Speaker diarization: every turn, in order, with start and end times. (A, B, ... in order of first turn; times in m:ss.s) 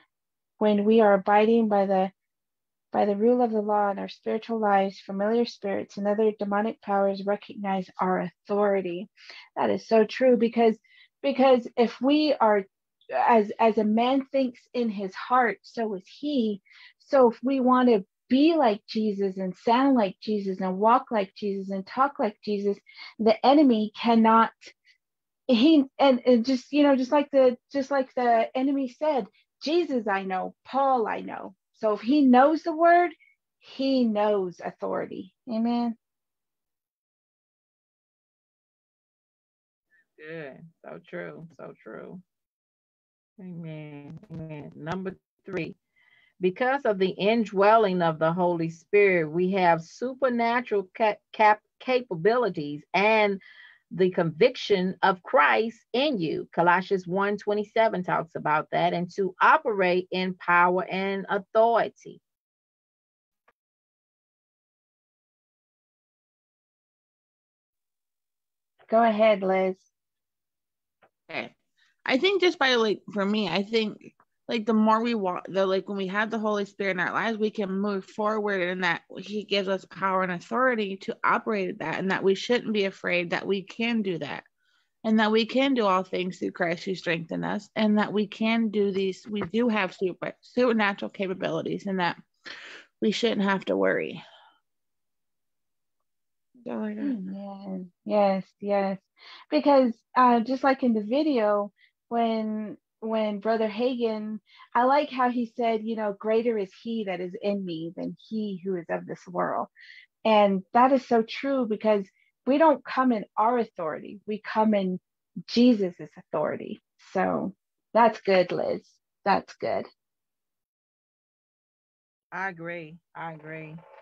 0:00.6-0:02.1 A
0:02.9-0:24.7 A
0:25.5-0:36.0 A
0:40.2-0:42.2 B
0:43.4-0:45.8 B
0:46.4-0:53.4 B
0:53.9-1:02.2 B
1:08.9-1:09.8 A
1:11.3-1:11.5 C
1:12.1-1:24.5 C
1:25.0-1:32.2 C
1:33.0-1:34.2 C
1:36.6-1:37.2 C
1:37.0-1:49.7 A
1:50.2-1:59.9 A
2:02.3-2:03.8 B